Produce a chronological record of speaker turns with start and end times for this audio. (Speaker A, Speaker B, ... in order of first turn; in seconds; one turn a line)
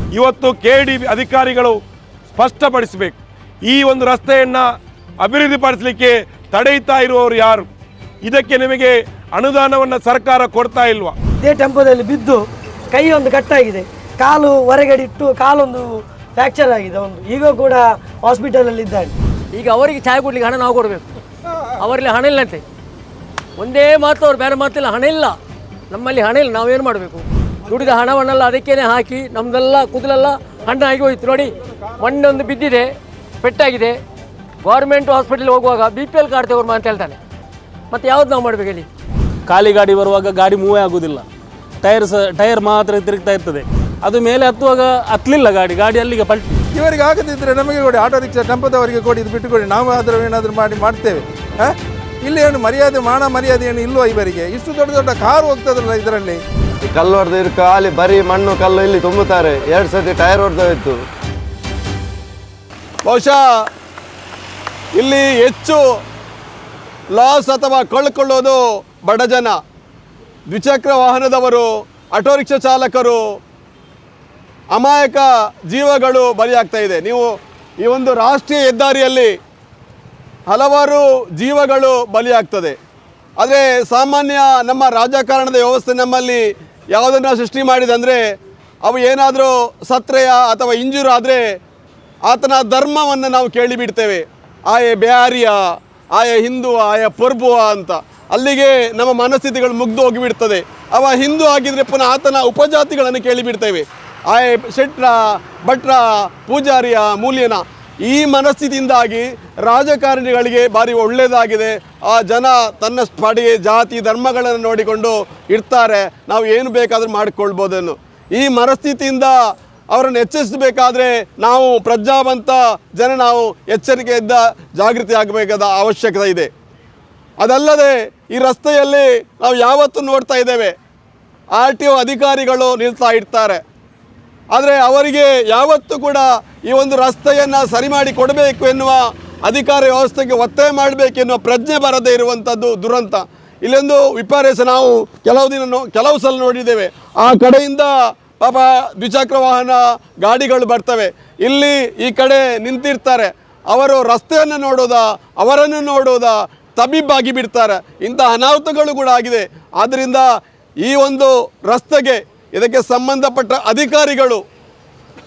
Speaker A: 0.1-1.8
Speaker A: 2.3-4.7
Speaker A: 5.2-7.7
Speaker A: 8.2-11.2
Speaker B: 11.4-12.4
Speaker B: 12.9-15.8
Speaker B: 16.4-19.1
Speaker C: 19.5-21.1
Speaker C: 21.8-22.6
Speaker C: 23.6-25.4
Speaker C: 25.9-32.9
Speaker C: 33.4-34.0
Speaker C: 34.6-37.2
Speaker C: 37.9-38.9
Speaker D: 39.5-41.2
Speaker D: 41.8-46.6
Speaker E: 46.7-56.4
Speaker F: 56.8-61.0
Speaker G: 63.1-63.6
Speaker G: 65.0-65.8
Speaker G: 67.1-69.6
Speaker G: 70.5-73.2
Speaker G: 74.7-77.3
Speaker G: 77.8-79.3
Speaker G: 80.5-82.8
Speaker G: 83.4-86.4
Speaker G: 86.9-88.2
Speaker G: 88.8-91.4
Speaker G: 92.3-95.6
Speaker G: 96.2-119.4
Speaker G: 119.9-126.5
Speaker G: 127.4-130.7
Speaker G: 131.6-133.6
Speaker G: 134.5-160.3
Speaker G: 160.8-164.4